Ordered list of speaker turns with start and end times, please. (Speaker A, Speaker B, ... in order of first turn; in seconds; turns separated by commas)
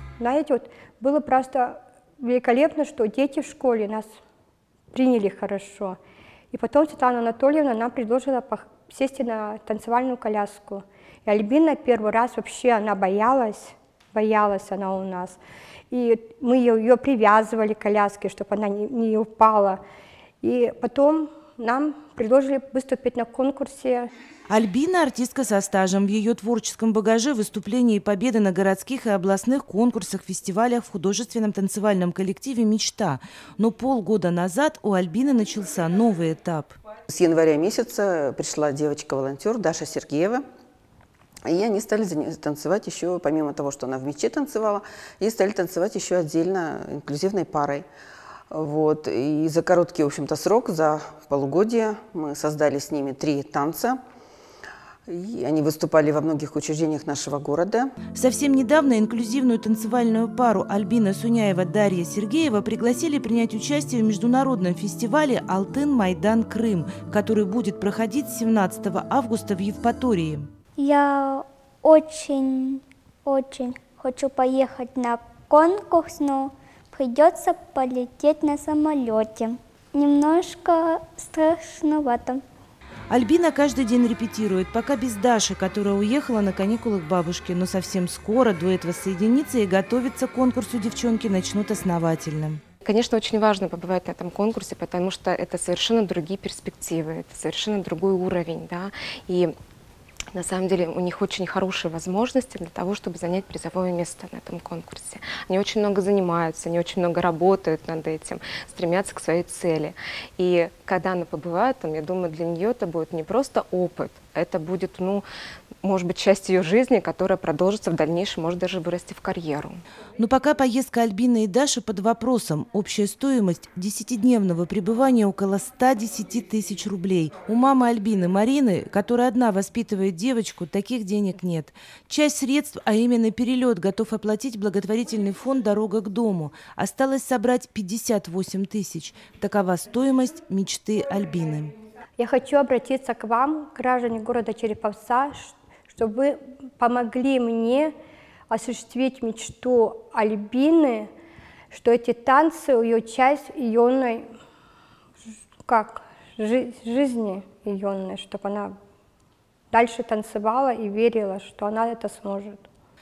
Speaker A: 0.2-4.1, Speaker A: 4.9-6.0, Speaker A: 6.5-15.4, Speaker A: 15.9-19.8, Speaker A: 20.4-24.1, Speaker B: 24.5-36.8, Speaker C: 37.1-40.4, Speaker C: 41.5-47.9, Speaker C: 48.5-54.0, Speaker C: 55.1-57.9, Speaker B: 58.1-70.5, Speaker D: 70.8-82.4, Speaker B: 83.1-92.6, Speaker E: 92.8-99.5, Speaker E: 100.3-115.2, Speaker E: 115.8-119.8, Speaker B: 120.2-141.7, Speaker A: 142.2-147.9, Speaker A: 148.5-151.1, Speaker A: 151.7-154.2, Speaker A: 155.6-158.7, Speaker A: 159.7-162.7